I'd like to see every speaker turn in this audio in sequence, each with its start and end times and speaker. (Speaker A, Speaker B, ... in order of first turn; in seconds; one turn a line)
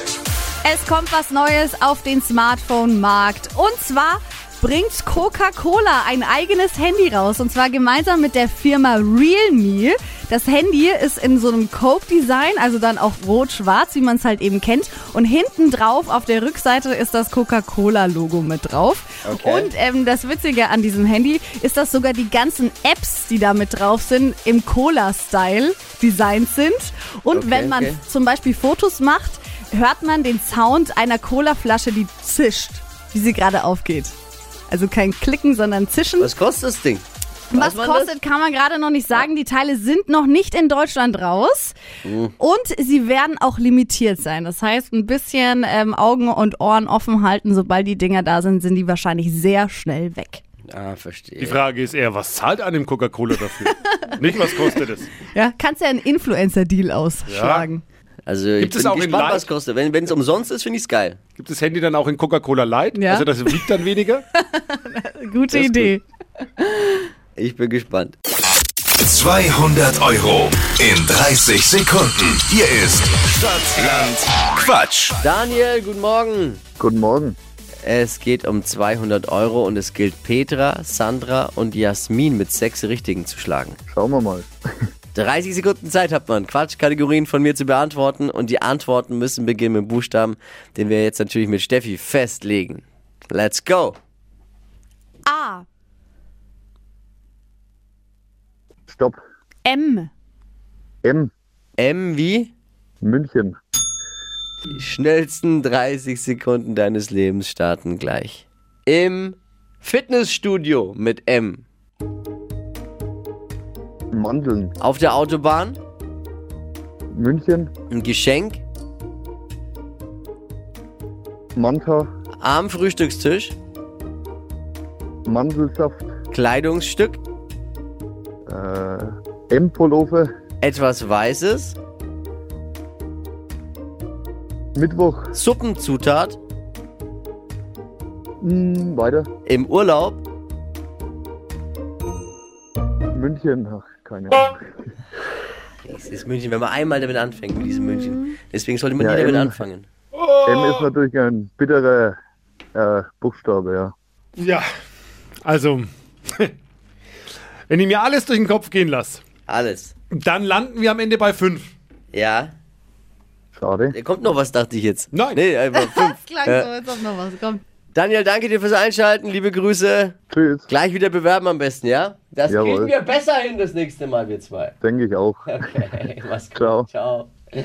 Speaker A: 0.6-34.1
Speaker B: 19.2-19.7
Speaker B: 27.3-28.0
Speaker A: 34.7-36.3
Speaker B: 36.2-38.2
Speaker A: 37.5-41.8
Speaker B: 42.0-42.3
Speaker A: 42.4-50.4
Speaker B: 50.7-51.6
Speaker C: 51.4-55.1
Speaker A: 53.9-54.8
Speaker A: 55.3-57.8
Speaker C: 57.3-57.7
Speaker B: 58.3-61.2
Speaker C: 58.6-59.5
Speaker C: 61.4-64.2
Speaker A: 63.0-63.7
Speaker A: 64.3-66.0
Speaker C: 65.5-65.9
Speaker A: 66.6-67.0
Speaker B: 67.4-68.2
Speaker D: 69.0-75.2
Speaker B: 75.2-76.6
Speaker E: 76.8-77.4
Speaker B: 77.8-83.8
Speaker E: 83.9-84.5
Speaker B: 85.1-94.0
Speaker A: 95.2-95.6
Speaker E: 98.9-99.2
Speaker A: 99.6-100.1
Speaker E: 101.0-101.3
Speaker B: 101.8-102.5
Speaker E: 103.0-103.5
Speaker B: 104.7-111.6
Speaker E: 114.1-114.7
Speaker B: 114.8-115.8
Speaker E: 117.1-117.7
Speaker B: 117.9-118.6
Speaker E: 121.5-122.1
Speaker B: 122.4-123.5
Speaker E: 125.2-126.1
Speaker B: 126.3-127.2
Speaker E: 128.5-130.3
Speaker B: 130.6-131.8
Speaker E: 134.8-135.3
Speaker B: 135.3-136.4
Speaker E: 138.4-139.3
Speaker B: 139.4-140.2
Speaker E: 143.1-144.6
Speaker B: 145.8-149.9
Speaker E: 149.0-149.6
Speaker C: 150.1-150.9
Speaker E: 150.4-152.2
Speaker E: 152.7-153.9
Speaker C: 154.4-154.6
Speaker C: 155.4-156.5
Speaker C: 157.7-159.2
Speaker B: 159.5-159.9
Speaker C: 160.2-161.7
Speaker B: 162.1-162.5
Speaker E: 163.6-163.9
Speaker B: 163.9-166.7
Speaker C: 165.1-165.4
Speaker A: 165.9-167.6
Speaker B: 167.9-170.2
Speaker E: 170.3-170.7
Speaker B: 170.7-174.7
Speaker E: 172.5-172.9
Speaker E: 174.8-175.6
Speaker B: 175.5-177.3
Speaker E: 176.5-176.9